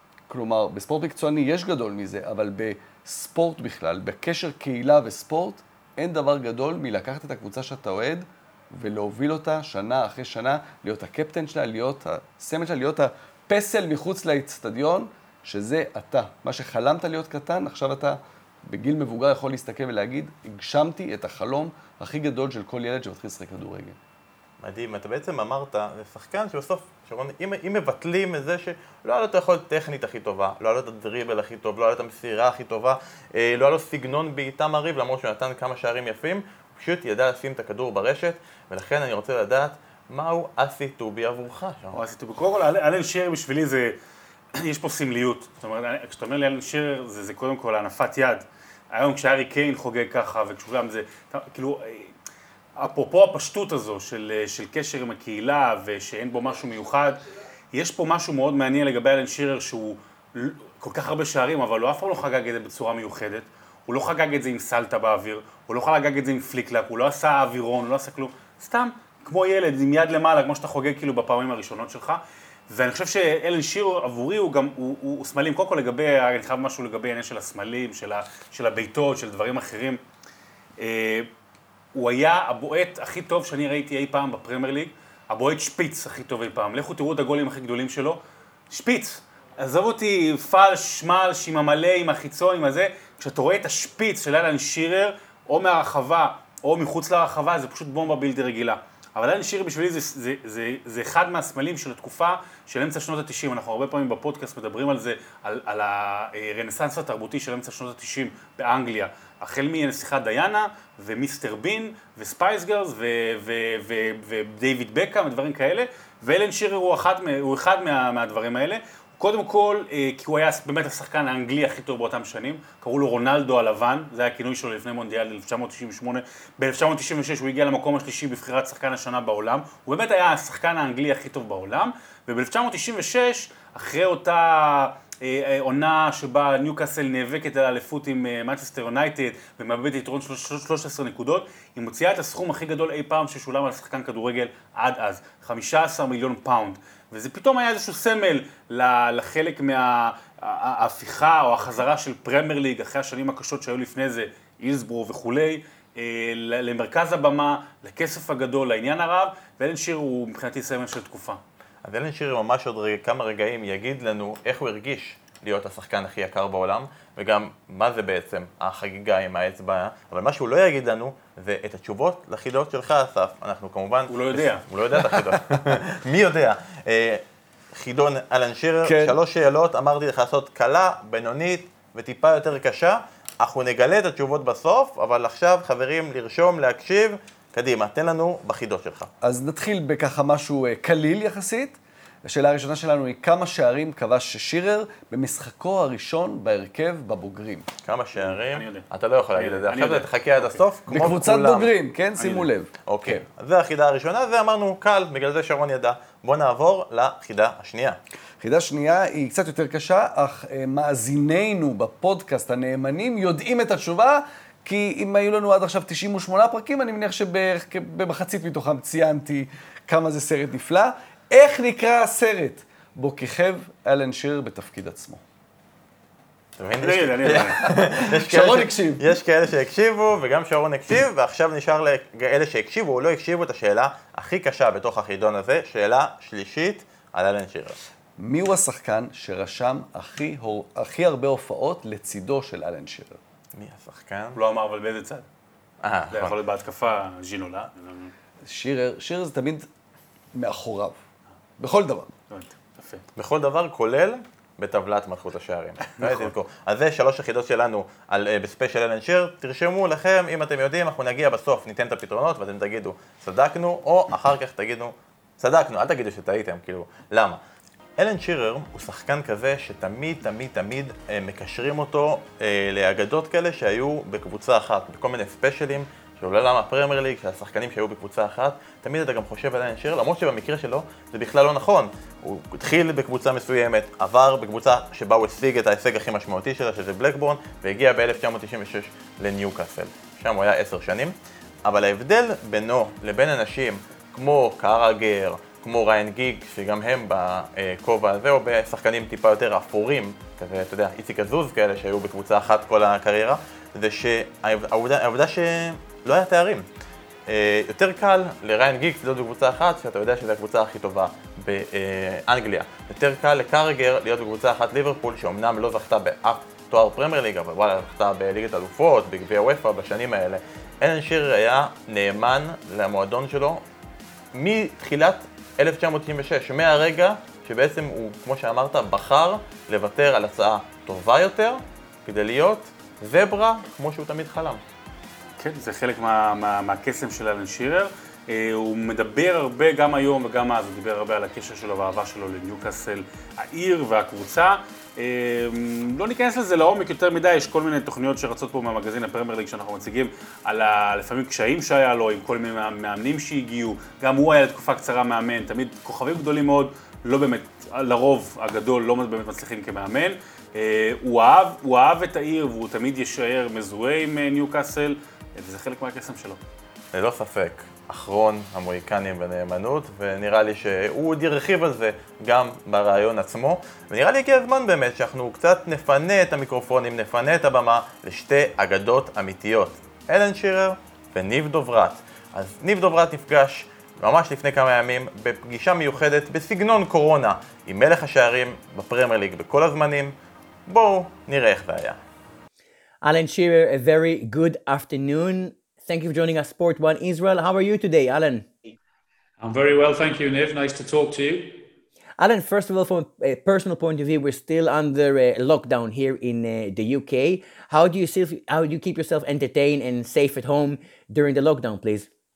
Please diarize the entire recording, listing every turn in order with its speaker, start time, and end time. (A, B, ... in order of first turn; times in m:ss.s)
0:00.3-0:24.0 A
0:24.6-0:42.0 B
0:41.9-0:43.9 C
0:44.6-0:52.1 C
0:52.8-0:57.2 C
0:57.7-1:20.0 C
1:20.8-1:21.3 C
1:21.9-2:41.4 C
2:41.8-3:09.1 B
2:54.1-2:54.6 C
2:55.3-2:55.6 A
2:58.8-2:59.2 A
3:09.2-3:17.6 A
3:17.8-3:21.7 B
3:18.2-3:20.6 C
3:20.9-3:23.2 A
3:22.2-3:22.5 C
3:22.9-3:28.0 B
3:28.4-3:45.2 A
3:46.6-3:57.8 B
3:46.8-3:47.7 C
3:47.2-3:49.1 A
3:58.2-4:03.2 A
4:03.5-4:04.4 B
4:04.3-4:05.2 C
4:05.8-4:06.4 B
4:06.1-4:08.1 C
4:08.4-4:09.7 A
4:10.3-4:11.0 A
4:11.6-4:12.1 A
4:12.3-4:13.0 C
4:13.2-4:27.4 B
4:16.0-4:16.3 C
4:28.0-5:06.6 B
5:07.3-5:23.6 B
5:24.3-5:34.6 B
5:35.4-6:06.4 C
6:06.9-6:30.1 B
6:30.7-6:32.0 B
6:33.0-6:38.5 D
6:39.4-6:41.6 E
6:42.2-6:52.1 D